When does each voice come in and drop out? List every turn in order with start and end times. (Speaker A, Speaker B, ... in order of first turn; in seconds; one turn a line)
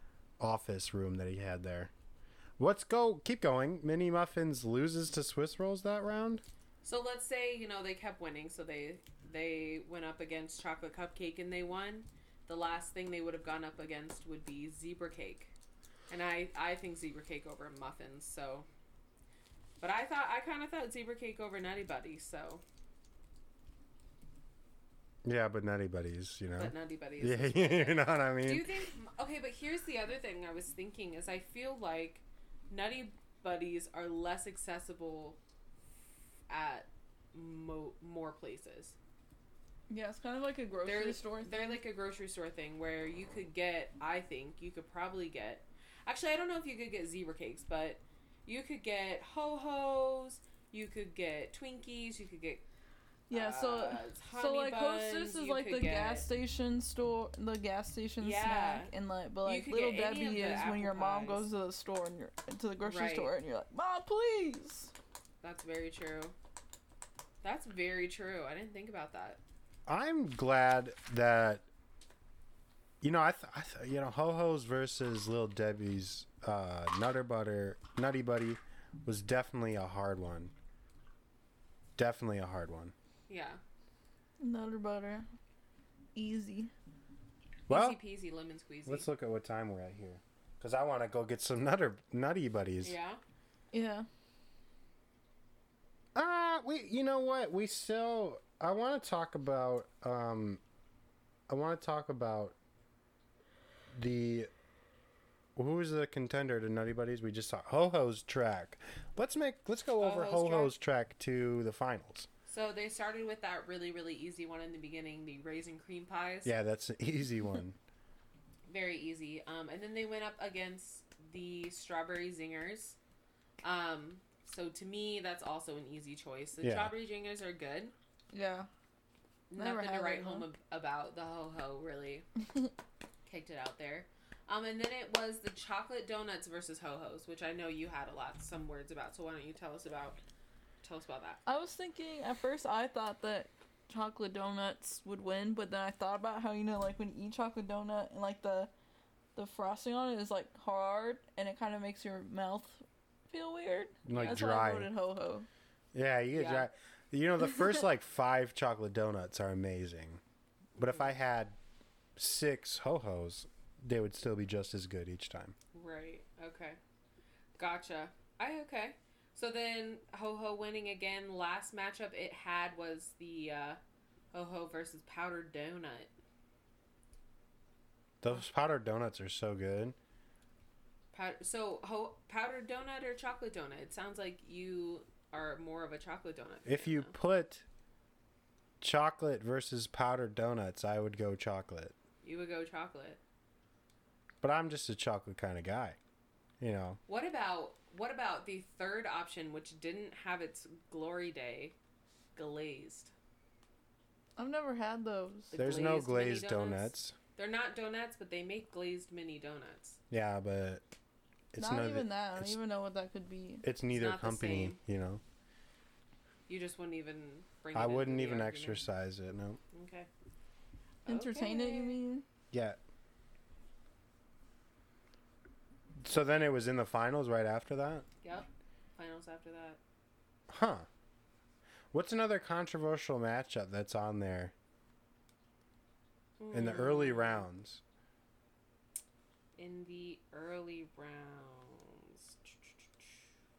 Speaker A: 0.4-1.9
Speaker A: 2.6-6.4
Speaker B: 6.8-15.5
Speaker B: 16.1-18.7
Speaker B: 19.8-22.6
Speaker A: 25.2-28.7
Speaker B: 26.6-35.4
Speaker B: 36.5-39.0
Speaker C: 39.9-41.8
Speaker B: 40.8-52.6
Speaker C: 53.3-64.9
Speaker B: 53.3-56.3
Speaker B: 58.2-58.9
Speaker B: 59.4-61.5
Speaker B: 62.8-63.3
Speaker B: 65.4-66.3
Speaker B: 67.4-69.4
Speaker A: 69.8-71.6
Speaker A: 73.0-80.5
Speaker A: 82.0-82.9
Speaker B: 83.3-83.6
Speaker C: 84.4-85.2
Speaker C: 86.1-86.7
Speaker A: 87.7-88.0
Speaker B: 87.7-89.1
Speaker A: 88.8-93.0
Speaker B: 92.8-93.2
Speaker C: 93.7-94.1
Speaker A: 96.1-100.6
Speaker A: 101.5-102.5
Speaker A: 103.9-104.5
Speaker A: 105.5-112.3
Speaker B: 110.0-110.7
Speaker B: 112.5-116.5
Speaker A: 116.4-117.8
Speaker B: 118.7-123.0
Speaker B: 123.6-127.9
Speaker A: 126.6-126.9
Speaker C: 128.3-128.7
Speaker B: 129.5-132.3
Speaker C: 129.6-130.4
Speaker B: 133.2-140.2
Speaker B: 140.8-141.4
Speaker C: 141.5-148.7
Speaker C: 149.3-155.5
Speaker A: 154.1-154.9
Speaker A: 155.9-160.2
Speaker B: 156.3-156.7
Speaker A: 160.8-161.6
Speaker B: 160.8-161.1
Speaker A: 162.2-165.5
Speaker B: 165.7-166.8
Speaker B: 167.6-173.8
Speaker B: 174.3-176.1
Speaker A: 178.2-179.9
Speaker B: 181.1-187.1
Speaker A: 186.7-187.6
Speaker A: 188.8-191.9
Speaker B: 192.2-193.2
Speaker A: 194.4-196.0
Speaker A: 196.6-197.0
Speaker B: 197.1-201.8
Speaker B: 202.3-203.1
Speaker C: 204.4-205.5
Speaker B: 205.5-210.0
Speaker A: 205.5-207.1
Speaker A: 210.1-210.8
Speaker A: 211.5-212.6
Speaker C: 211.6-213.6
Speaker A: 213.6-215.2
Speaker B: 213.9-214.8
Speaker B: 216.5-218.8
Speaker A: 217.7-219.6
Speaker B: 219.7-220.1
Speaker C: 221.0-222.2
Speaker B: 221.1-222.0
Speaker A: 222.5-222.8
Speaker A: 226.0-228.1
Speaker B: 228.2-229.8
Speaker A: 230.5-230.9
Speaker A: 231.9-234.5
Speaker B: 236.4-237.5
Speaker A: 236.5-237.8
Speaker B: 239.6-243.3